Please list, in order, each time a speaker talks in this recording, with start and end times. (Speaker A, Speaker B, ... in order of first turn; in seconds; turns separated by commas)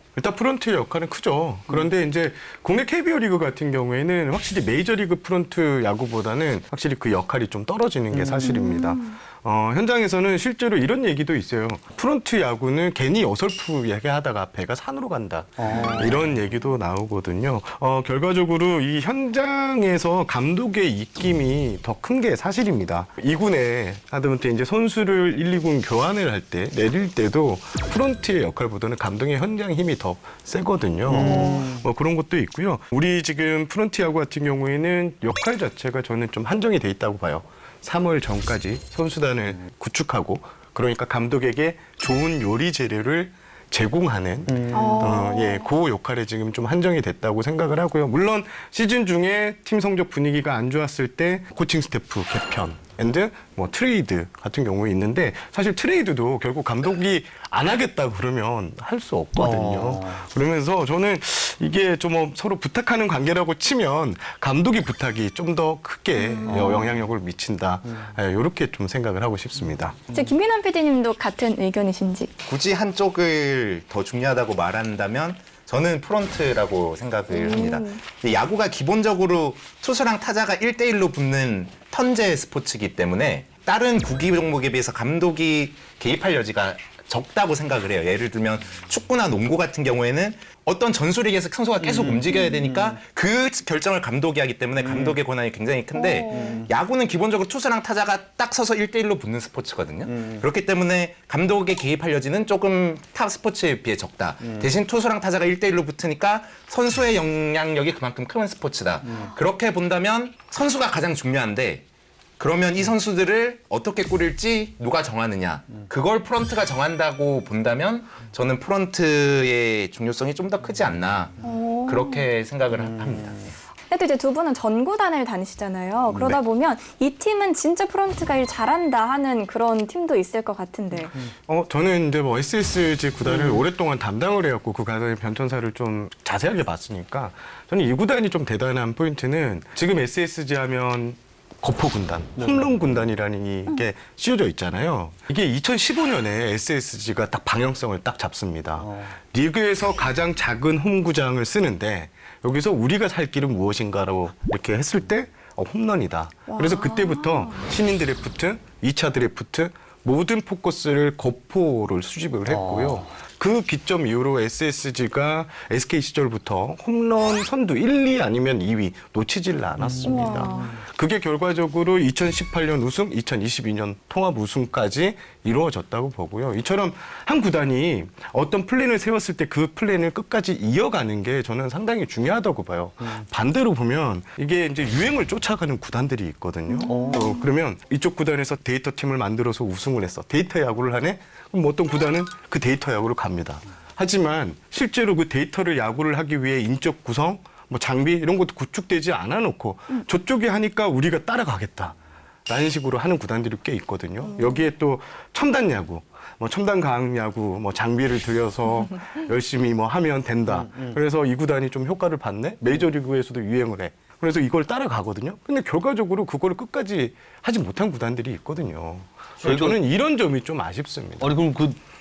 Speaker A: 0.1-70.0, Speaker B: 8.1-8.6, Speaker C: 8.4-9.1, Speaker B: 15.6-16.3, Speaker B: 31.1-31.8, Speaker B: 44.5-45.1, Speaker C: 44.7-45.6, Speaker B: 59.4-60.2, Speaker C: 66.2-66.9, Speaker B: 66.5-67.0, Speaker C: 70.1-72.3, Speaker D: 72.5-111.9, Speaker C: 77.3-78.0, Speaker B: 91.8-93.0, Speaker B: 94.8-95.2, Speaker C: 95.9-96.6, Speaker B: 96.3-96.7, Speaker B: 100.1-100.4, Speaker B: 104.4-104.7, Speaker D: 112.4-123.4, Speaker C: 121.4-122.3, Speaker B: 122.7-123.4, Speaker C: 123.9-131.2, Speaker B: 126.1-126.4, Speaker A: 131.5-202.0, Speaker B: 133.2-133.6, Speaker B: 142.3-142.8, Speaker B: 148.8-149.2, Speaker C: 156.5-157.7, Speaker B: 162.4-163.1, Speaker B: 169.8-170.7, Speaker C: 170.0-170.7, Speaker C: 186.7-187.2, Speaker B: 186.9-187.3, Speaker A: 202.5-221.4, Speaker C: 204.4-204.6, Speaker B: 210.5-211.0, Speaker B: 219.4-219.8, Speaker B: 221.2-221.8